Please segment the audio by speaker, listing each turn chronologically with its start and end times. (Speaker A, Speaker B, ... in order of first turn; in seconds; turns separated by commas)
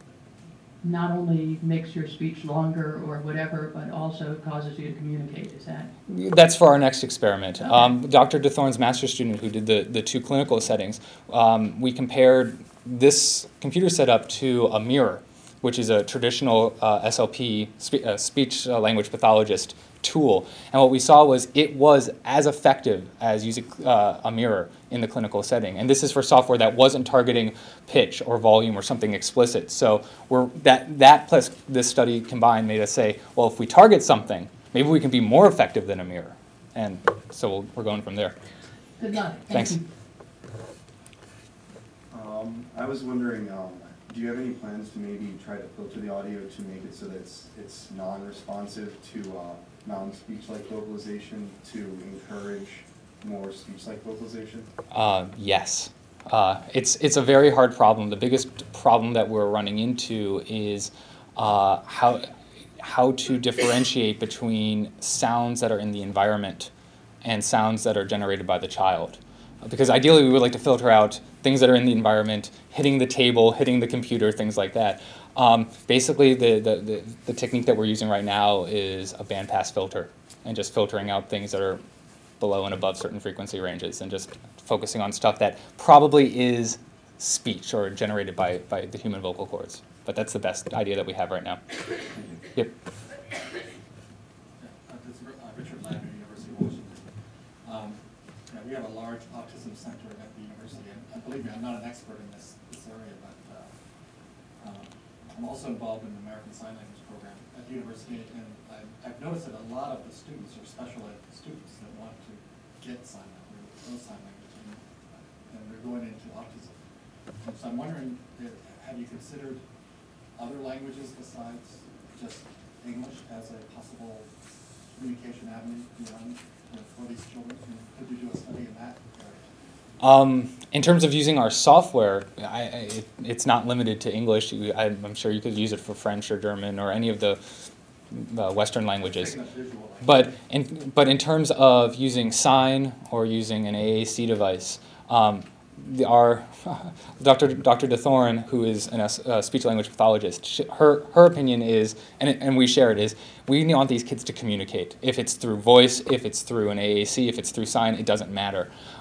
Speaker A: 0.8-5.9, Speaker B: 6.1-38.4, Speaker A: 39.0-39.8, Speaker B: 39.5-39.8, Speaker C: 42.1-54.7, Speaker B: 54.9-66.7, Speaker B: 67.2-81.8, Speaker B: 82.4-91.6, Speaker C: 92.2-92.4, Speaker D: 94.6-97.1, Speaker D: 97.6-103.7, Speaker D: 104.6-116.7, Speaker D: 117.4-119.6, Speaker D: 120.4-124.3, Speaker D: 124.9-129.5, Speaker B: 130.0-137.4, Speaker B: 138.1-139.3, Speaker D: 139.0-140.3, Speaker B: 140.0-158.7